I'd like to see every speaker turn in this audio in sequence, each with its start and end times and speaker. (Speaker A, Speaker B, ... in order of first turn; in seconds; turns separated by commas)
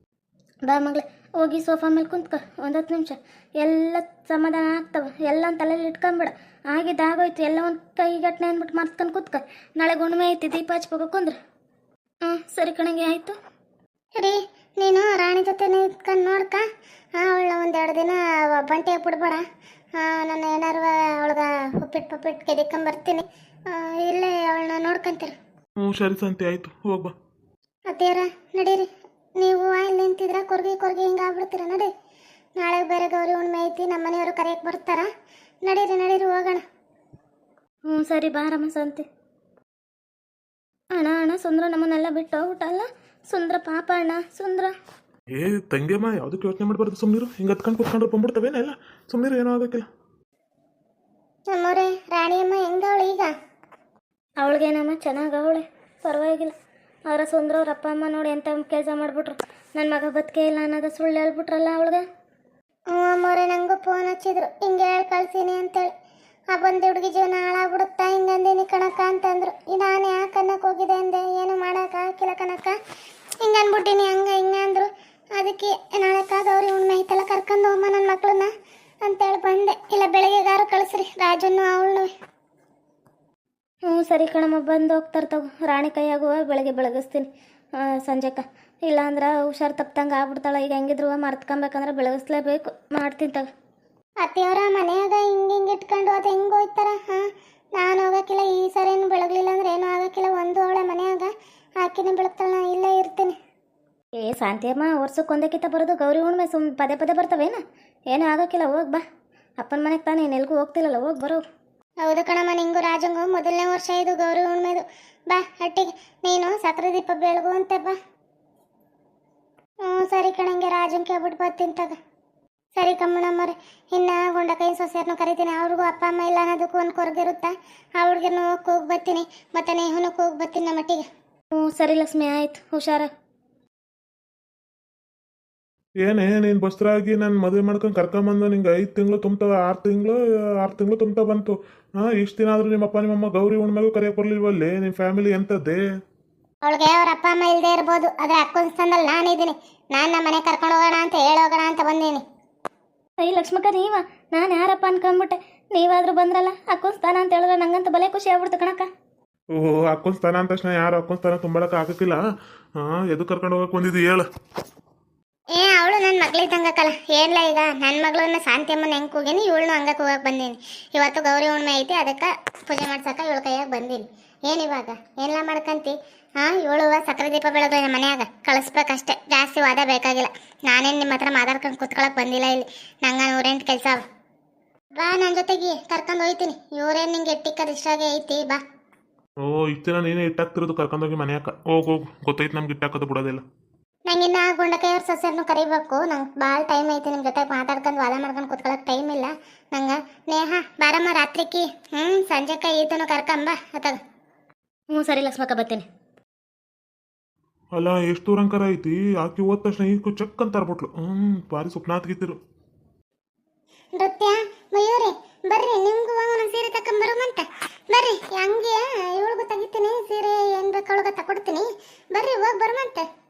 Speaker A: 0.7-11.4, Speaker A: 12.2-13.4, Speaker B: 14.2-16.6, Speaker B: 17.2-19.4, Speaker B: 20.0-25.3, Speaker C: 25.8-27.1, Speaker B: 27.9-28.9, Speaker B: 29.4-31.9, Speaker B: 32.6-35.1, Speaker B: 35.6-36.6, Speaker A: 37.9-39.1, Speaker A: 41.0-44.7, Speaker C: 45.4-49.9, Speaker B: 51.5-53.3, Speaker A: 54.4-56.5, Speaker A: 57.1-62.0, Speaker B: 62.9-65.9, Speaker B: 66.5-72.8, Speaker B: 73.4-78.5, Speaker B: 79.0-82.1, Speaker A: 83.9-87.3, Speaker A: 87.8-93.5, Speaker B: 94.2-97.2, Speaker B: 97.8-101.3, Speaker B: 101.8-103.3, Speaker A: 104.2-109.0, Speaker A: 109.6-111.4, Speaker B: 112.0-118.0, Speaker B: 119.9-122.0, Speaker B: 122.8-131.0, Speaker A: 131.5-133.1, Speaker C: 136.0-145.8, Speaker B: 146.7-152.2, Speaker A: 153.2-158.9, Speaker C: 159.6-162.2, Speaker C: 162.8-164.3, Speaker B: 165.6-184.0, Speaker B: 185.0-188.6, Speaker C: 189.4-193.4, Speaker B: 194.1-204.0, Speaker A: 204.9-205.9, Speaker C: 207.7-212.4, Speaker B: 214.0-223.0